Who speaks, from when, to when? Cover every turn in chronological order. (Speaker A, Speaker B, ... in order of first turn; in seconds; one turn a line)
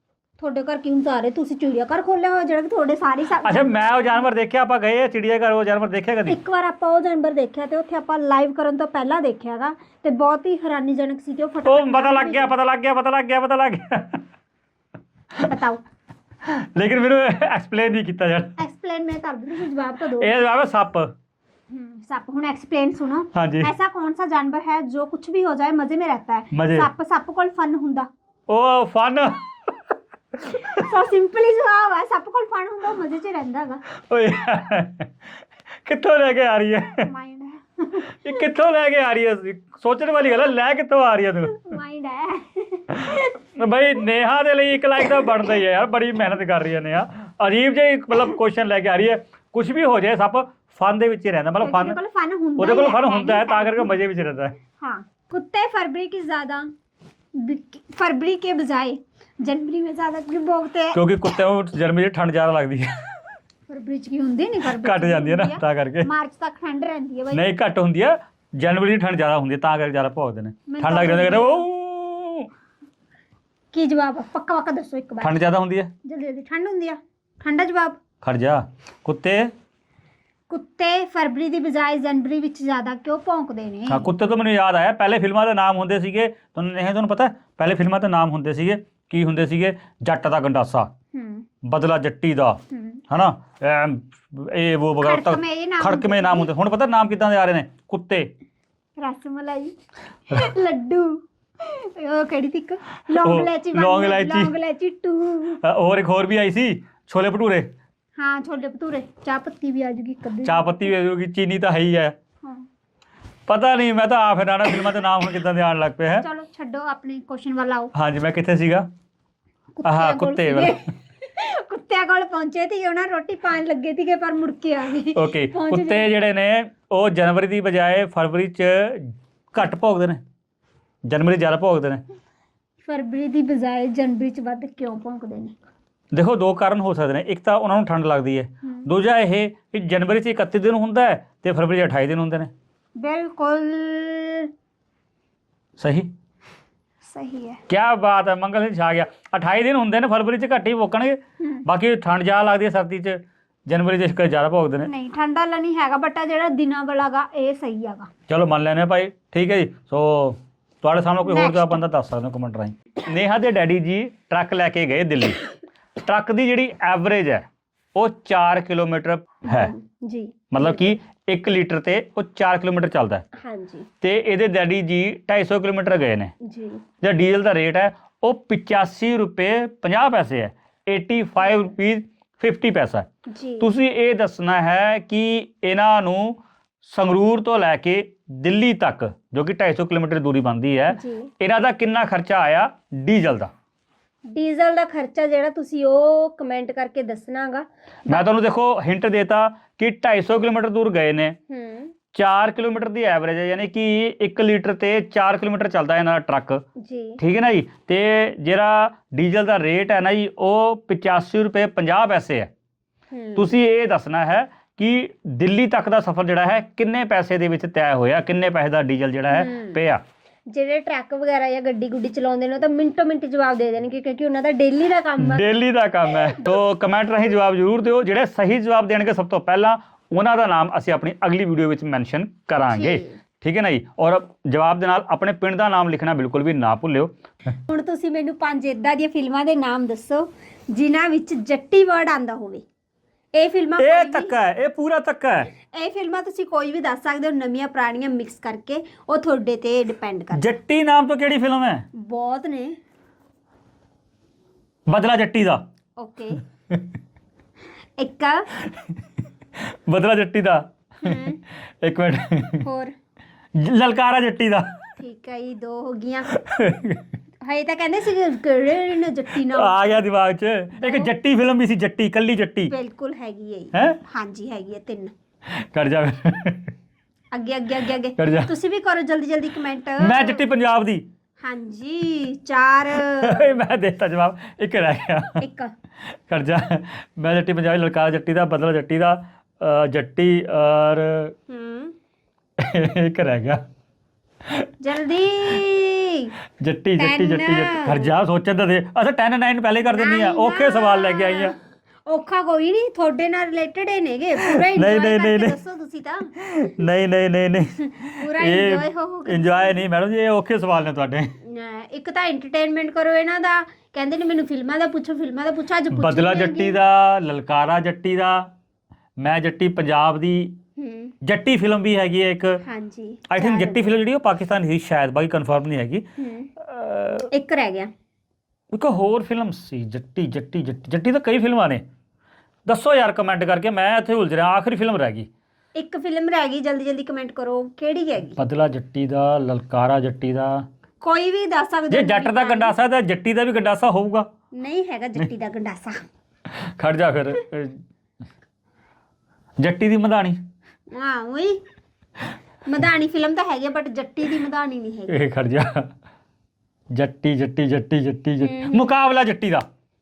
Speaker A: 0.4-4.2
Speaker B: 3.4-6.4
Speaker A: 6.3-12.5
Speaker B: 11.7-14.2
Speaker A: 15.5-15.8
Speaker B: 16.4-18.6
Speaker A: 18.6-20.4
Speaker B: 20.2-21.1
Speaker A: 21.7-28.1
Speaker B: 23.3-23.7
Speaker B: 26.5-26.9
Speaker B: 28.5-29.9
Speaker B: 30.5-30.8
Speaker A: 30.5-33.8
Speaker B: 34.1-35.1
Speaker B: 35.8-37.1
Speaker A: 37.0-38.3
Speaker B: 38.2-41.8
Speaker A: 41.5-43.3
Speaker B: 42.9-52.0
Speaker A: 51.6-54.0
Speaker B: 52.6-54.5
Speaker A: 54.8-56.7
Speaker A: 57.4-61.0
Speaker B: 60.9-63.2
Speaker A: 63.7-67.4
Speaker B: 64.7-66.1
Speaker B: 67.3-72.5
Speaker A: 70.7-71.7
Speaker A: 73.7-75.4
Speaker B: 75.2-75.9
Speaker A: 76.0-78.0
Speaker B: 78.2-79.5
Speaker A: 80.5-84.1
Speaker B: 83.9-90.9
Speaker A: 91.1-91.4
Speaker B: 91.6-98.3
Speaker A: 92.7-93.0
Speaker A: 95.0-96.5
Speaker A: 99.0-99.8
Speaker A: 100.3-105.6
Speaker B: 103.1-104.5
Speaker B: 105.6-107.7
Speaker A: 108.2-110.9
Speaker B: 110.4-112.2
Speaker B: 113.5-116.3
Speaker A: 116.2-117.9
Speaker B: 117.9-118.9
Speaker A: 119.8-126.1
Speaker B: 119.8-120.8
Speaker B: 125.1-130.2
Speaker B: 131.1-132.0
Speaker A: 132.8-135.5
Speaker B: 136.1-142.5
Speaker A: 143.0-144.5
Speaker B: 145.8-146.1
Speaker A: 147.0-147.6
Speaker B: 147.7-154.9
Speaker A: 154.8-158.1
Speaker B: 158.3-165.4
Speaker A: 161.2-161.8
Speaker B: 166.0-169.7
Speaker A: 169.5-171.0
Speaker B: 170.5-173.2
Speaker A: 173.3-173.9
Speaker B: 174.0-176.3
Speaker A: 176.4-176.8
Speaker B: 177.0-183.1
Speaker A: 183.3-183.7
Speaker B: 183.6-193.5
Speaker A: 190.9-191.3
Speaker A: 194.3-198.2
Speaker B: 198.1-201.3
Speaker A: 201.5-201.9
Speaker B: 202.1-206.6
Speaker A: 206.8-207.2
Speaker B: 207.2-212.5
Speaker A: 213.1-213.5
Speaker B: 213.3-220.0
Speaker A: 219.3-219.8
Speaker A: 220.5-225.5
Speaker B: 225.2-237.5
Speaker A: 232.7-233.2
Speaker A: 237.7-242.7
Speaker A: 243.3-244.3
Speaker B: 243.8-245.5
Speaker A: 245.7-250.5
Speaker B: 250.3-251.8
Speaker A: 251.9-252.8
Speaker B: 254.9-255.6
Speaker A: 256.0-256.4
Speaker A: 258.0-258.5
Speaker B: 259.6-262.6
Speaker A: 261.0-261.4
Speaker A: 262.6-262.9
Speaker B: 263.5-264.8
Speaker A: 265.0-266.3
Speaker B: 266.3-267.1
Speaker A: 267.4-270.1
Speaker B: 269.4-272.7
Speaker A: 270.8-271.1
Speaker A: 272.7-275.1
Speaker B: 273.7-274.0
Speaker B: 275.5-276.7
Speaker A: 277.3-280.4
Speaker B: 278.2-278.5
Speaker B: 280.0-281.0
Speaker A: 281.4-283.5
Speaker B: 282.9-285.4
Speaker A: 285.4-285.7
Speaker B: 286.1-291.3
Speaker A: 291.5-291.9
Speaker B: 292.6-293.6
Speaker A: 294.8-296.3
Speaker B: 296.6-301.6
Speaker A: 297.0-298.1
Speaker A: 299.9-306.3
Speaker B: 304.5-305.6
Speaker B: 306.4-311.3
Speaker A: 308.1-309.8
Speaker A: 311.4-316.8
Speaker B: 315.9-318.5
Speaker B: 319.2-320.6
Speaker A: 320.8-321.1
Speaker B: 321.2-322.6
Speaker A: 322.6-323.9
Speaker B: 323.3-326.0
Speaker A: 326.2-326.5
Speaker B: 326.6-327.3
Speaker A: 327.3-327.9
Speaker B: 328.7-331.8
Speaker B: 332.6-335.3
Speaker A: 335.8-338.4
Speaker B: 338.4-340.6
Speaker A: 341.0-342.8
Speaker B: 341.9-344.3
Speaker A: 344.5-346.0
Speaker B: 346.5-347.8
Speaker B: 349.6-350.4
Speaker A: 350.9-351.6
Speaker A: 352.6-355.2
Speaker B: 355.1-355.9
Speaker B: 356.9-359.6
Speaker A: 358.4-358.9